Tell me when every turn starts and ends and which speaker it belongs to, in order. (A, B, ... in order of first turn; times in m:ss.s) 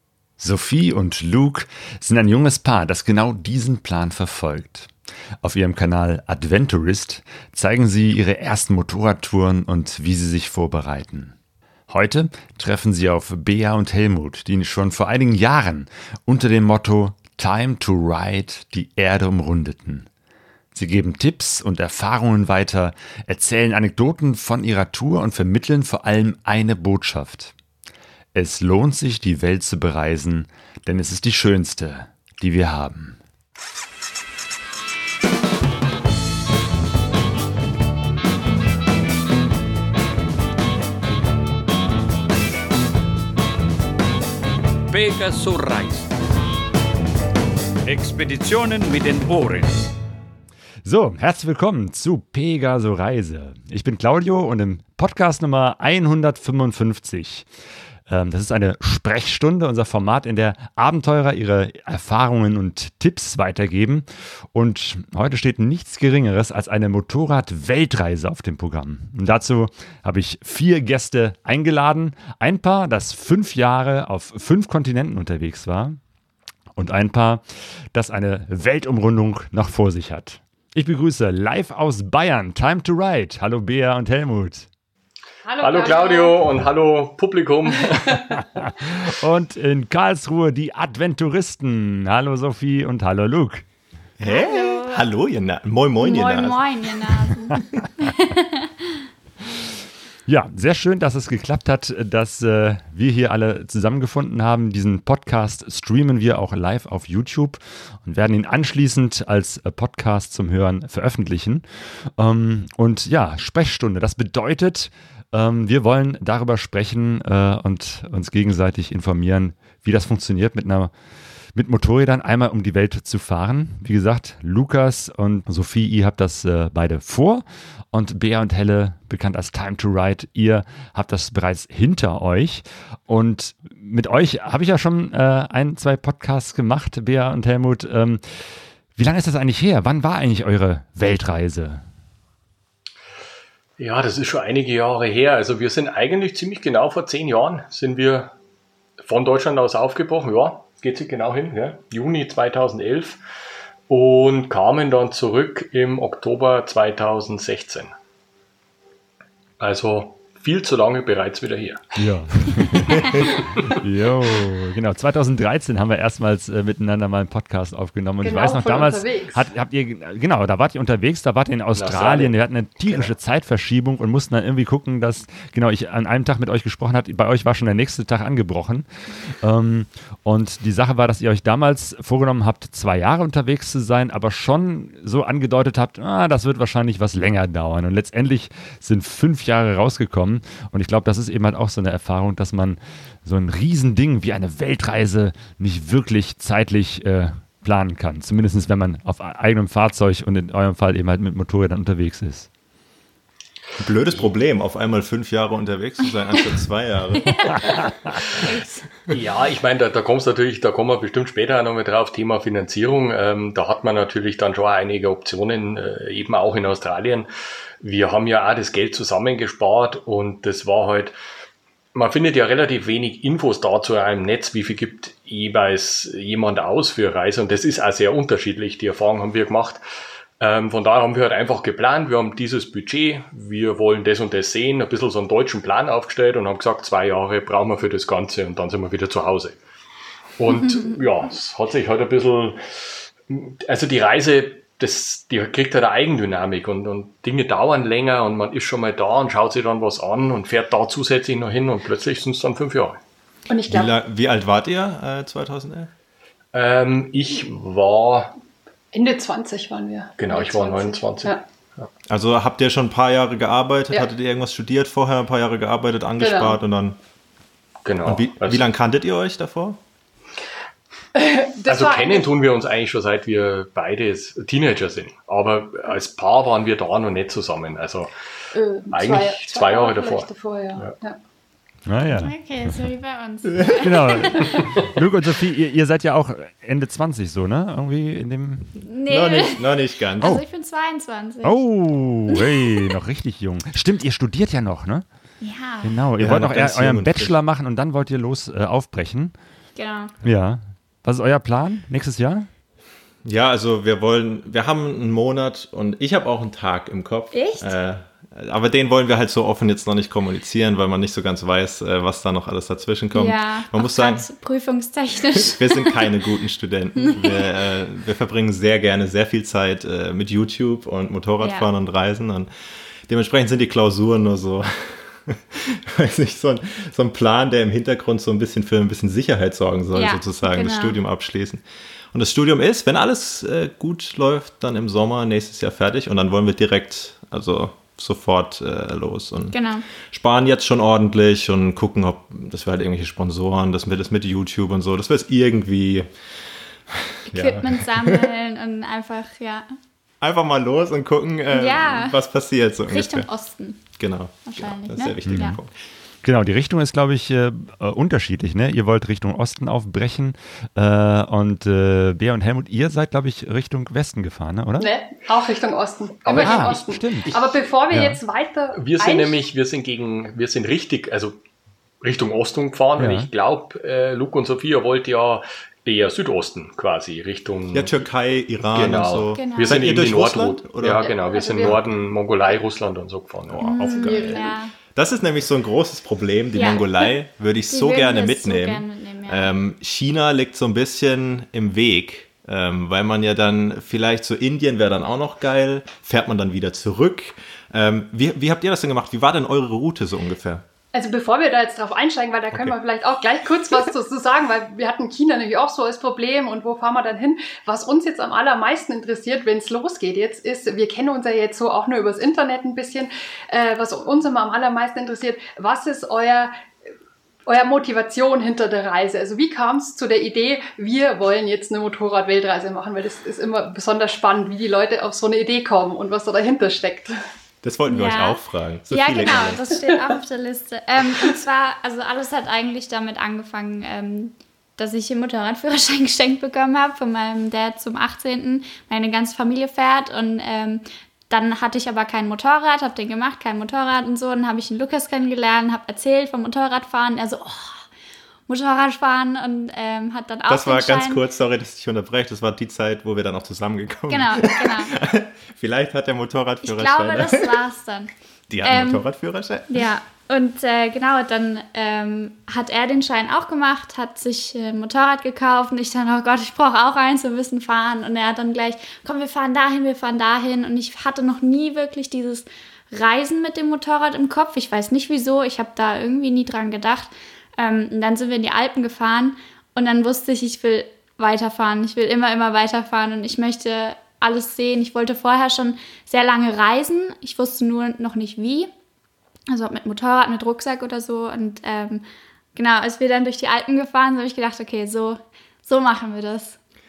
0:00.4-0:11.3 A
0:11.9-0:20.0 A
0:20.7-0:27.5 A
0:28.3-0:33.2 A
0:44.9-0:46.1 B
0:47.8-0:49.8 B
0:50.8-0:57.5 A
0:58.1-1:16.0 A
1:16.8-1:24.7 A
1:25.4-1:26.4 C
1:25.6-1:28.4 D
1:28.4-1:33.6 A
1:34.2-1:36.6 E
1:34.2-1:35.0 F
1:36.0-1:38.7 F
1:40.3-2:00.9 A
2:01.5-2:18.4 A
2:18.9-2:21.8 A
2:23.8-2:28.3 D
2:29.0-2:33.2 D
2:33.9-2:37.9 D
2:39.6-2:41.9 D
2:42.0-2:58.9 A
2:43.0-2:43.8 D
2:48.2-2:49.4 C
2:51.8-2:52.3 D
2:59.4-3:22.5 A
3:23.8-3:27.6 E
3:27.2-3:28.8 F
3:27.7-3:28.2 A
3:29.1-3:37.3 D
3:37.8-3:41.2 D
3:41.9-3:49.8 D
3:50.4-3:59.6 D
4:00.4-4:13.0 D
4:00.6-4:01.0 F
4:13.5-4:13.9 C
4:13.7-4:15.9 E
4:16.5-4:18.3 D
4:18.9-4:21.4 C
4:20.2-4:21.9 D
4:22.1-4:27.0 E
4:26.2-4:26.6 C
4:27.8-4:28.6 D
4:28.0-4:29.8 E
4:31.1-4:32.3 C
4:31.7-4:38.1 D
4:38.5-4:41.2 C
4:38.9-4:40.9 D
4:41.8-4:42.8 A
4:42.1-4:44.7 F
4:43.5-4:43.9 E
4:43.8-4:48.7 A
4:48.9-4:51.6 F
4:49.0-4:50.4 E
4:51.4-4:55.0 A
4:52.3-4:52.8 F
4:55.4-4:56.0 F
4:55.8-4:59.3 A
4:56.2-4:57.3 E
4:59.8-5:00.1 F
5:00.2-5:02.5 A
5:03.2-5:14.3 E
5:07.3-5:07.7 F
5:13.1-5:16.0 F
5:15.4-5:22.5 E
5:17.0-5:17.5 F
5:21.4-5:21.7 F
5:23.1-5:39.6 E
5:29.9-5:31.0 F
5:39.5-5:39.8 F
5:40.1-5:46.1 E
5:46.9-5:48.3 E
5:47.3-5:49.7 F
5:50.2-5:53.3 E
5:51.5-5:52.2 F
5:52.9-5:53.9 F
5:54.0-5:55.7 E
5:54.4-5:55.6 F
5:55.2-5:55.6 A
5:56.2-6:04.9 A
6:04.8-6:09.4 C
6:06.2-6:07.5 D
6:06.4-6:07.3 A
6:07.9-6:08.2 A
6:08.7-6:11.4 D
6:12.0-6:18.1 D
6:13.0-6:13.3 A
6:17.7-6:21.1 E
6:18.6-6:23.7 D
6:19.3-6:19.8 F
6:21.0-6:21.8 C
6:23.5-6:40.6 E
6:23.6-6:24.7 F
6:23.8-6:24.5 C
6:26.5-6:27.1 F
6:27.7-6:29.5 F
6:40.9-6:56.5 C
6:57.4-7:07.1 C
7:07.6-7:09.7 E
7:07.9-7:27.8 F
7:28.5-7:31.2 F
7:30.5-7:37.6 E
7:34.1-7:34.9 F
7:36.6-7:38.1 F
7:38.5-7:39.9 E
7:38.6-7:39.0 F
7:39.7-8:08.7 F
8:09.5-8:12.0 F
8:12.5-8:16.6 F